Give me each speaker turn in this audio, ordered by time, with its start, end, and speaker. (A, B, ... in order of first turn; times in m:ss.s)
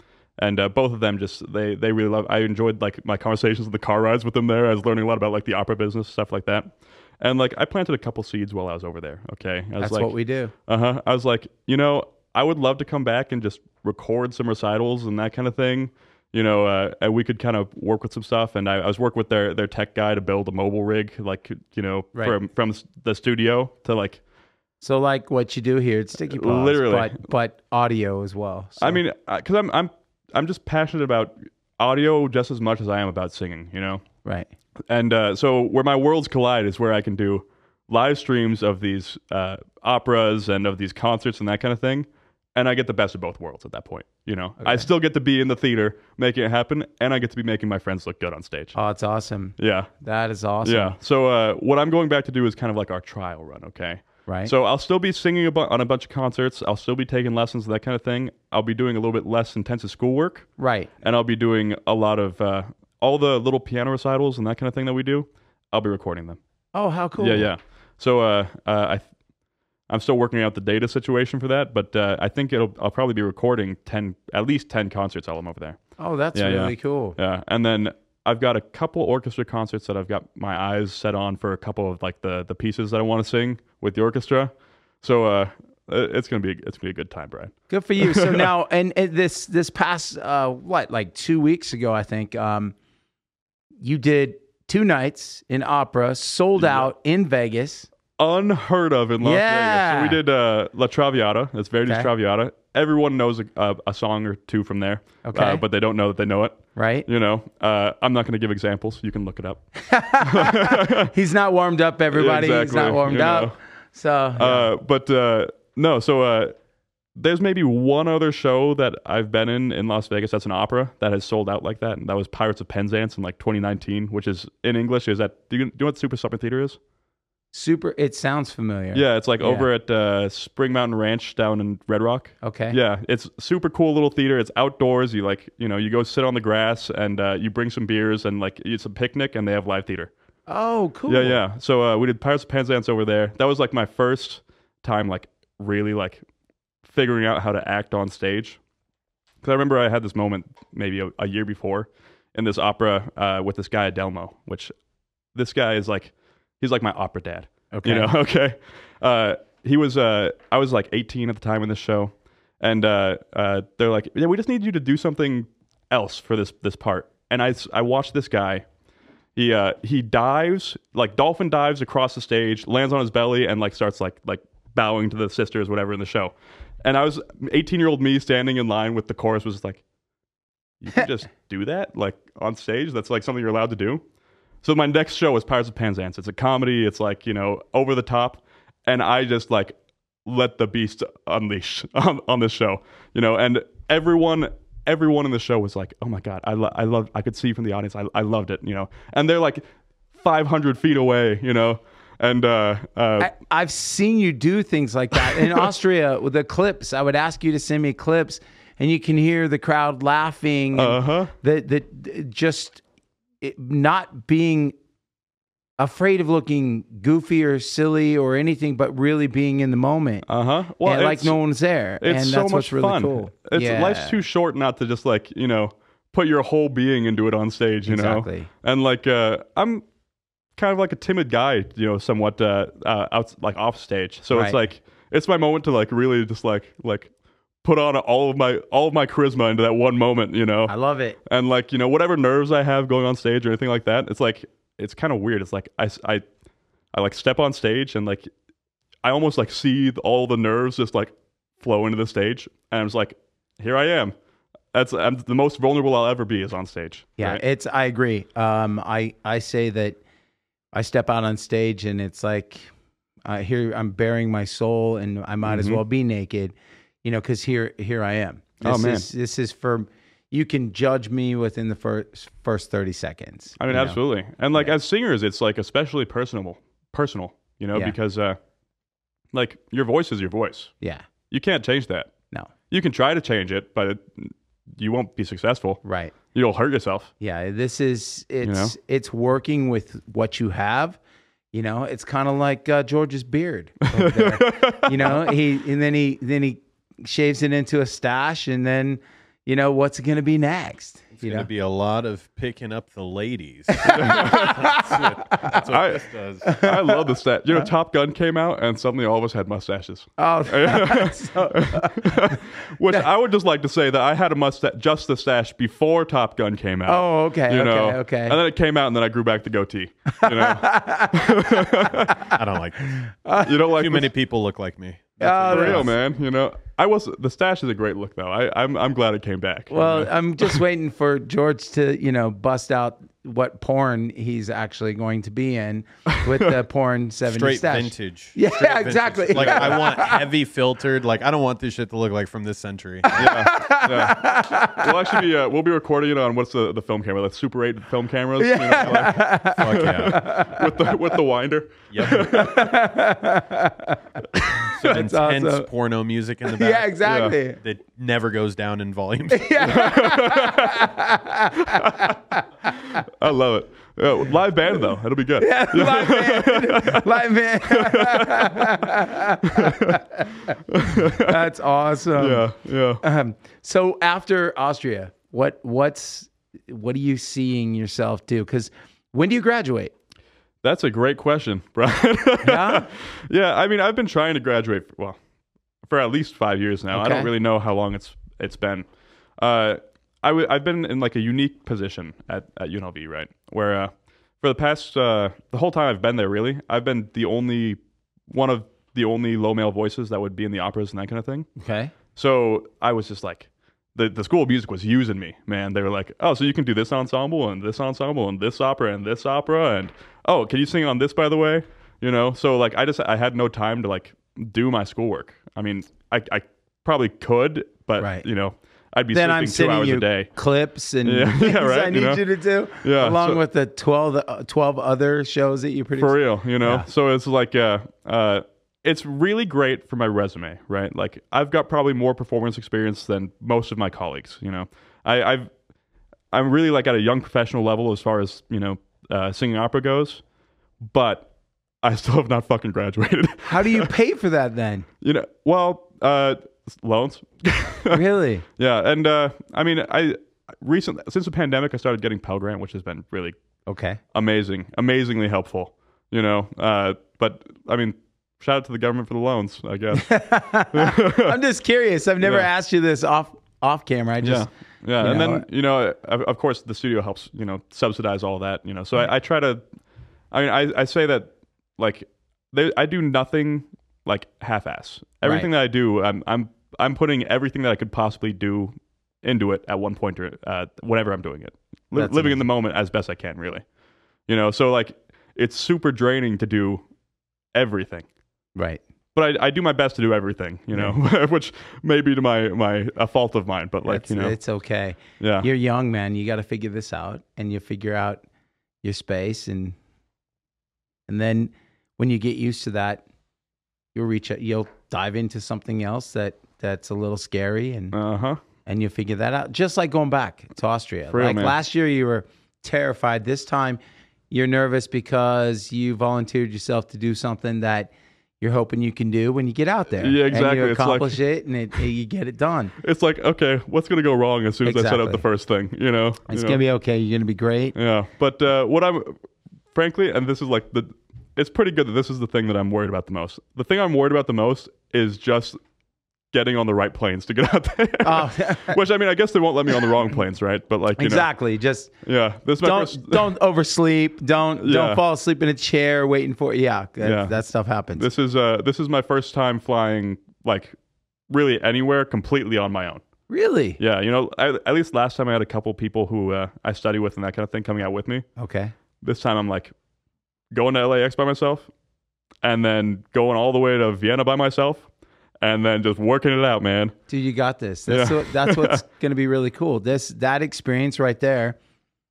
0:00.4-0:10.2 A
0:09.8-0:10.5 B
0:10.7-0:24.2 A
0:24.8-0:29.0 B
0:26.3-0:27.2 A
0:28.8-0:34.0 A
0:34.2-0:34.5 B
0:34.9-0:48.8 A
0:44.6-0:44.9 B
0:48.7-0:51.0 B
0:49.6-0:49.9 A
0:50.6-1:06.4 A
0:54.3-0:54.5 B
1:00.6-1:00.9 B
1:06.7-1:07.5 B
1:07.2-1:09.0 A
1:09.9-1:15.8 A
1:16.0-1:17.2 B
1:16.3-1:28.5 A
1:27.7-1:32.8 B
1:33.8-1:37.9 B
1:36.6-1:36.9 A
1:38.2-1:49.6 A
1:39.2-1:40.2 B
1:45.2-1:45.6 B
1:46.8-1:47.0 B
1:49.8-1:54.7 B
1:50.2-1:51.1 A
1:52.1-1:53.6 A
1:54.4-1:56.6 A
1:57.2-2:06.8 A
2:07.5-2:09.7 B
2:08.9-2:20.1 A
2:12.4-2:12.8 B
2:20.5-2:21.4 B
2:21.1-2:26.2 A
2:26.9-2:28.6 A
2:29.4-2:34.7 A
2:35.3-2:48.6 A
2:37.7-2:38.1 B
2:49.4-2:59.8 A
3:00.8-3:04.0 A
3:04.6-3:09.8 A
3:10.3-3:23.3 A
3:23.2-3:32.8 B
3:30.8-3:31.3 A
3:33.4-3:34.8 B
3:35.8-3:40.2 B
3:40.3-3:41.4 A
3:40.8-3:44.2 B
3:42.0-3:49.8 A
3:47.9-3:48.5 B
3:50.6-3:57.1 A
3:54.3-3:54.6 B
3:57.6-4:00.8 A
4:00.7-4:01.2 B
4:01.3-4:06.2 A
4:06.9-4:08.3 A
4:09.0-4:14.1 A
4:14.7-4:17.4 A
4:17.2-4:20.0 B
4:20.7-4:22.7 B
4:23.2-4:34.0 B
4:25.4-4:25.8 A
4:28.6-4:29.1 A
4:33.6-4:38.4 A
4:39.3-4:40.7 A
4:40.8-4:41.1 B
4:41.3-4:42.1 A
4:42.7-4:47.1 A
4:45.8-4:46.2 B
4:47.2-4:51.0 B
4:48.4-4:48.7 A
4:51.5-5:01.5 B
4:53.9-4:55.4 A
5:01.2-5:06.6 C
5:03.8-5:05.6 B
5:03.8-5:04.6 A
5:05.7-5:22.1 A
5:06.5-5:07.0 B
5:10.2-5:13.0 B
5:16.9-5:18.4 B
5:20.2-5:22.4 B
5:22.2-5:23.0 C
5:23.0-5:23.7 B
5:23.4-5:24.1 A
5:23.7-5:25.9 C
5:25.2-5:25.9 B
5:25.5-5:30.6 A
5:29.7-5:40.2 B
5:37.3-5:44.1 C
5:43.1-5:45.0 B
5:43.2-5:52.8 A
5:48.4-5:51.0 B
5:48.8-5:50.4 C
5:51.9-5:52.5 C
5:52.0-5:55.7 B
5:54.6-5:59.9 C
5:56.5-5:57.6 B
5:57.1-5:57.4 A
5:59.3-6:02.4 B
5:59.7-6:00.8 A
6:03.2-6:07.0 A
6:05.4-6:10.6 B
6:07.7-6:08.7 A
6:09.5-6:10.0 A
6:10.7-6:11.4 A
6:11.1-6:12.5 B
6:12.2-6:13.0 A
6:13.0-6:19.9 B
6:20.6-6:25.2 A
6:22.4-6:22.9 B
6:25.8-6:28.9 A
6:26.9-6:27.3 B
6:29.4-6:41.5 A
6:41.6-6:41.9 B
6:42.2-7:00.3 A
6:59.1-7:06.9 B
7:01.0-7:02.2 A
7:02.8-7:03.4 A
7:06.0-7:15.5 A
7:16.3-7:20.2 A
7:20.8-7:21.3 A
7:21.8-7:23.9 A
7:23.5-7:24.9 B
7:25.0-7:28.0 A
7:27.9-7:28.4 B
7:28.6-7:33.4 A
7:33.7-7:34.0 B
7:34.1-7:41.4 A
7:40.0-7:44.5 B
7:42.2-7:42.5 A
7:44.2-7:49.6 A
7:45.0-7:45.4 B
7:50.3-8:03.6 A
7:55.2-7:55.5 B
8:02.0-8:02.4 B
8:04.3-8:06.8 A
8:07.5-8:08.1 A
8:08.6-8:08.8 B
8:09.2-8:14.4 A
8:13.9-8:18.2 B
8:15.2-8:15.5 A
8:18.8-8:19.8 B
8:21.1-8:23.0 B
8:23.9-8:28.0 B
8:27.9-8:28.4 A
8:28.6-8:33.8 B
8:31.1-8:31.5 A
8:34.3-8:42.7 B
8:40.0-8:41.2 A
8:42.8-8:46.6 A
8:44.6-8:45.2 B
8:46.3-8:47.8 B
8:47.8-8:49.2 A
8:49.7-8:55.6 A
8:56.3-9:01.3 A
8:58.0-8:58.8 B
9:01.0-9:01.9 B
9:02.0-9:03.3 A
9:02.6-9:08.1 B
9:04.6-9:05.0 A
9:07.0-9:07.4 A
9:08.0-9:10.7 A
9:11.3-9:13.0 A
9:13.3-9:13.8 B
9:13.8-9:18.3 A
9:18.4-9:18.7 B
9:19.0-9:19.7 A
9:20.5-9:21.7 A
9:22.4-9:24.9 A
9:25.4-9:27.0 A
9:27.1-9:31.6 B
9:27.9-9:28.8 A